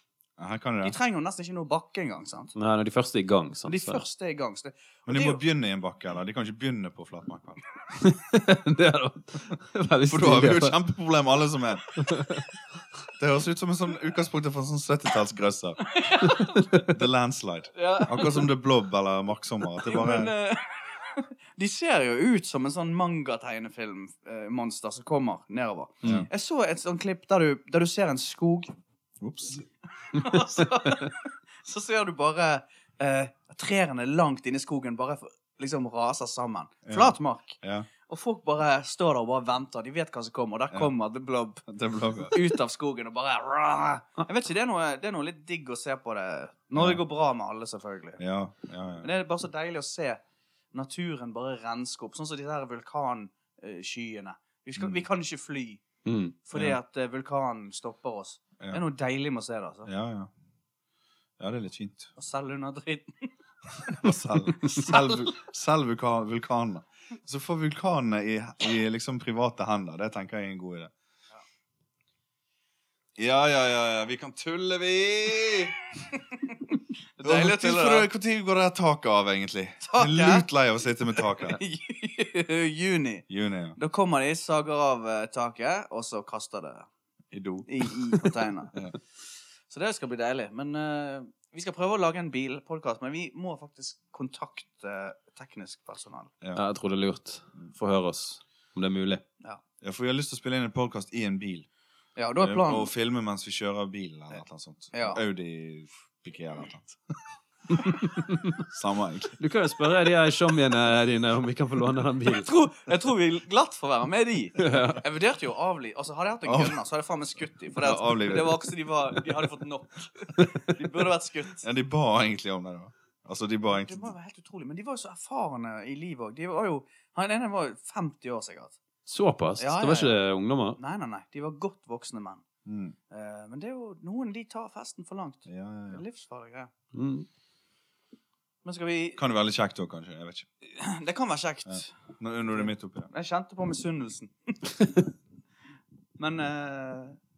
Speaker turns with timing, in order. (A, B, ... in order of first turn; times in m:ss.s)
0:00.4-0:01.0 A
0:00.8-0:02.5 B
0:02.5-0:04.0 C
0:03.7-0:05.4 B
0:05.0-0:07.6 A
0:08.0-0:10.8 C
0:10.1-0:12.0 A
0:12.0-0:12.4 C
0:13.2-0:15.8 A
0:15.8-0:16.8 B
0:16.7-0:20.3 A
0:17.8-0:18.5 B
0:19.8-0:28.7 B
0:26.0-0:26.3 C
0:26.0-0:26.3 A
0:29.2-0:29.7 A
0:30.1-0:41.6 B
0:36.9-0:37.9 A
0:41.7-0:42.4 A
0:42.3-0:48.2 B
0:46.7-0:47.0 A
0:48.2-0:49.1 A
0:49.0-0:50.2 B
0:50.7-0:55.8 B
0:56.0-0:56.4 C
0:56.4-0:59.9 B
0:59.8-1:00.3 A
1:01.4-1:02.1 A
1:02.2-1:03.3 B
1:03.8-1:05.3 B
1:03.9-1:10.9 A
1:13.2-1:15.8 A
1:17.2-1:18.1 B
1:17.2-1:21.6 A
1:19.8-1:20.4 B
1:21.4-1:26.9 B
1:23.3-1:23.8 A
1:27.3-1:28.1 A
1:27.6-1:28.8 B
1:29.7-1:36.3 B
1:36.5-1:39.2 C
1:39.8-1:41.7 A
1:42.2-1:42.9 B
1:42.4-1:47.1 A
1:44.9-1:45.2 B
1:47.7-1:48.6 C
1:48.6-1:49.4 A
1:49.4-1:52.5 C
1:52.3-2:01.6 B
1:54.6-1:55.0 C
1:56.4-1:56.8 A
1:57.8-1:58.7 A
2:01.6-2:04.1 A
2:03.7-2:08.8 B
2:09.0-2:10.8 C
2:09.6-2:10.2 B
2:10.8-2:12.4 B
2:12.6-2:13.0 A
2:13.1-2:16.7 B
2:15.4-2:16.0 A
2:16.9-2:17.3 C
2:18.6-2:19.2 B
2:19.2-2:20.5 A
2:20.6-2:21.9 B
2:21.7-2:23.1 A
2:22.5-2:24.9 B
2:26.2-2:27.2 B